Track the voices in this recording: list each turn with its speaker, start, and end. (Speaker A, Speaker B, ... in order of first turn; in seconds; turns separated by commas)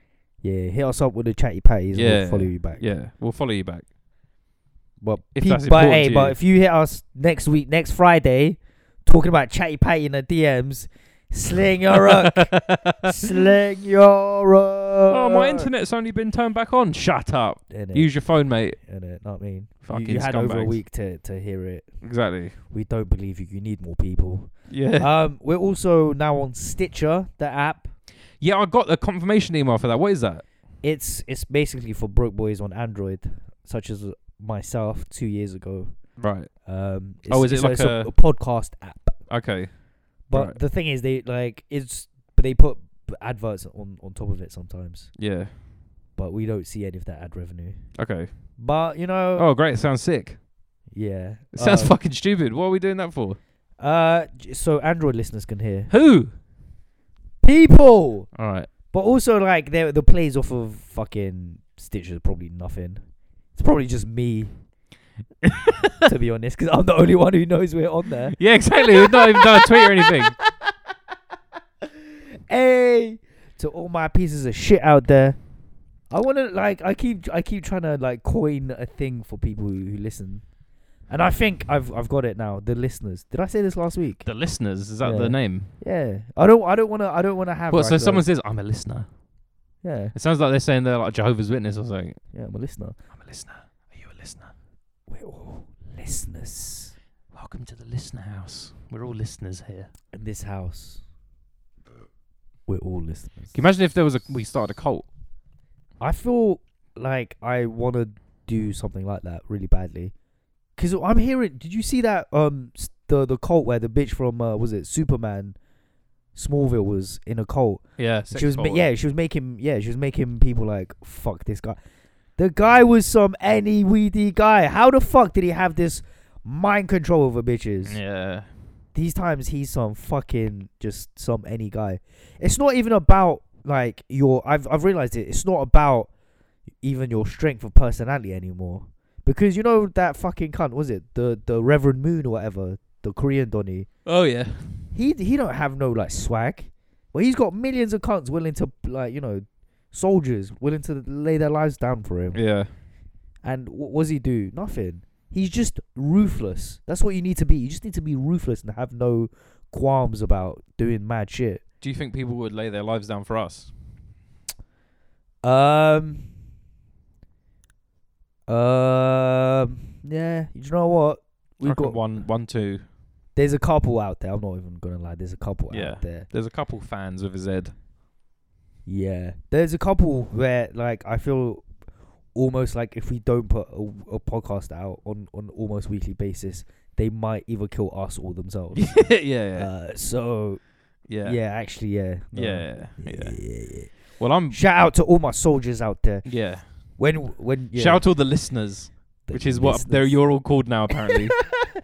Speaker A: 0.4-2.9, Speaker B: 1.9-3.9, Speaker A: 5.0-15.7, Speaker B: 5.3-6.4, Speaker B: 12.0-13.1, Speaker B: 15.1-18.8, Speaker A: 17.7-18.2, Speaker A: 18.8-22.0, Speaker B: 19.8-20.8, Speaker B: 22.0-22.6, Speaker A: 22.7-27.9, Speaker B: 24.7-25.1, Speaker B: 28.4-30.4, Speaker A: 30.8-36.0, Speaker B: 36.2-36.5, Speaker A: 36.6-39.2, Speaker B: 37.3-38.1, Speaker B: 39.3-39.8, Speaker A: 40.3-45.1, Speaker B: 40.3-40.6, Speaker B: 45.2-45.5, Speaker A: 46.2-47.9, Speaker B: 48.0-48.3, Speaker A: 48.6-49.5, Speaker B: 49.4-50.4, Speaker A: 50.9-52.0, Speaker B: 51.5-53.4, Speaker A: 53.8-55.9, Speaker B: 55.9-56.3, Speaker A: 57.4-58.3, Speaker B: 58.3-58.7, Speaker A: 58.9-64.5, Speaker A: 66.0-68.4, Speaker B: 68.3-70.4, Speaker A: 69.0-70.1, Speaker A: 72.5-75.4, Speaker A: 76.1-80.5, Speaker A: 81.1-84.3, Speaker B: 84.2-85.7, Speaker A: 85.0-88.2, Speaker B: 87.7-89.1, Speaker A: 89.8-90.2, Speaker B: 90.1-92.2, Speaker A: 92.3-93.0, Speaker B: 93.1-94.5, Speaker A: 95.1-97.0, Speaker B: 97.3-99.9, Speaker A: 100.1-101.0, Speaker A: 102.7-103.6, Speaker B: 103.5-105.1, Speaker A: 106.0-110.1, Speaker A: 110.8-115.6, Speaker A: 116.3-121.8, Speaker B: 118.0-118.9, Speaker A: 122.4-128.0, Speaker B: 127.9-128.5, Speaker A: 128.9-136.1, Speaker A: 136.8-143.9, Speaker B: 144.1-144.9, Speaker A: 144.9-152.4, Speaker B: 152.3-152.7, Speaker A: 153.4-161.6, Speaker B: 161.8-163.7, Speaker A: 165.4-166.3, Speaker A: 168.5-172.0, Speaker B: 171.6-172.8, Speaker A: 173.3-176.3, Speaker B: 175.7-177.7, Speaker A: 178.9-181.7, Speaker A: 182.3-190.7, Speaker B: 188.8-189.7, Speaker B: 191.1-191.4, Speaker A: 191.2-198.1, Speaker B: 192.3-194.6, Speaker B: 196.2-196.6, Speaker B: 197.8-201.5, Speaker A: 199.2-200.5